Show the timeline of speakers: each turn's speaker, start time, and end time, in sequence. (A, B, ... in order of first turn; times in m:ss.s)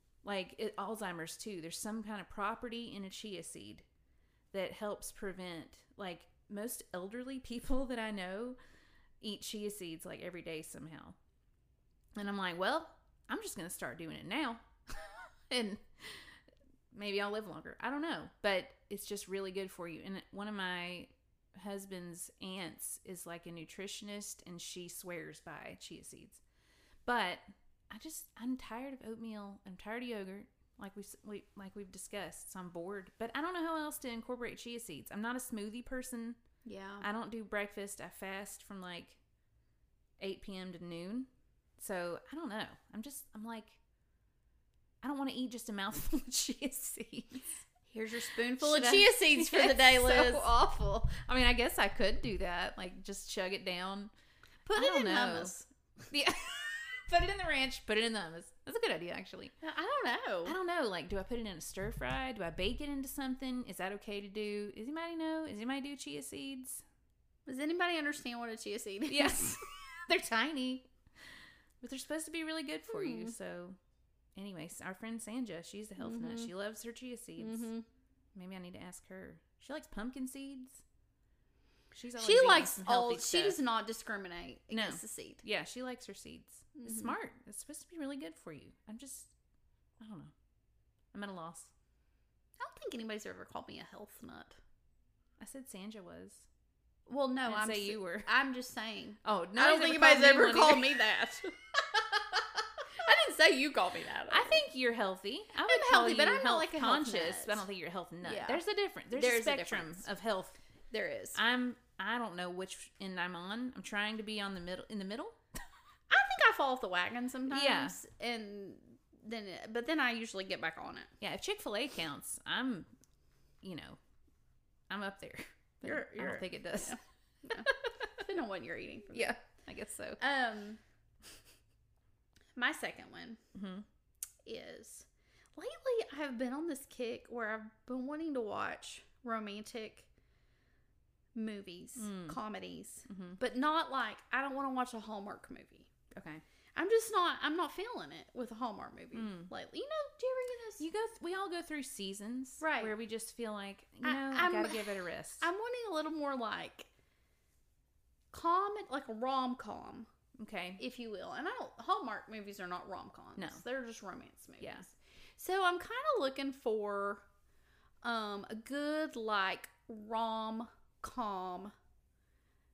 0:00.2-0:03.8 A
0:04.5-0:08.6 A
0:09.2-0:11.2 A
0:12.2-0:16.4 A
0:16.9-0:26.4 A
0:27.0-0:36.4 A
0:36.6-0:37.1 B
0:37.0-0:39.2 A
0:40.2-0:43.8 A
0:45.0-0:47.4 A
0:47.9-0:50.5 B
0:48.0-0:54.1 A
0:54.7-0:55.7 B
0:54.7-0:55.6 A
0:56.1-0:59.5 A
0:59.6-1:00.6 B
1:00.4-1:06.8 A
1:07.5-1:09.6 B
1:09.1-1:10.9 A
1:11.8-1:13.8 A
1:12.9-1:13.3 B
1:14.4-1:17.7 A
1:16.0-1:16.5 B
1:17.4-1:17.8 B
1:18.4-1:20.8 A
1:21.9-1:23.6 A
1:22.2-1:25.4 B
1:24.7-1:29.3 A
1:26.8-1:27.1 B
1:30.0-1:30.3 A
1:31.1-1:31.7 A
1:32.6-1:34.6 B
1:35.4-1:36.5 A
1:37.1-1:41.6 B
1:37.5-1:38.3 A
1:39.2-1:41.0 A
1:43.0-1:44.6 B
1:44.3-1:50.6 A
1:45.6-1:47.6 B
1:48.2-1:50.1 B
1:50.9-1:51.4 B
1:51.4-1:55.4 A
1:56.1-2:01.1 B
1:57.5-1:58.0 A
2:01.2-2:02.9 A
2:03.6-2:04.0 A
2:04.9-2:07.0 A
2:05.8-2:09.4 B
2:07.5-2:08.1 A
2:09.1-2:10.2 A
2:10.2-2:10.8 B
2:12.6-2:13.4 B
2:13.6-2:13.9 A
2:14.4-2:20.1 B
2:21.4-2:25.9 B
2:22.0-2:22.4 A
2:23.1-2:23.4 A
2:26.1-2:26.4 A
2:26.8-2:30.9 B
2:29.1-2:29.5 A
2:30.8-2:35.5 A
2:32.6-2:33.0 B
2:34.0-2:36.9 B
2:38.3-2:40.1 B
2:40.4-2:40.8 A
2:40.8-2:47.2 B
2:43.4-2:43.6 A
2:44.6-2:44.9 A
2:48.0-2:51.7 B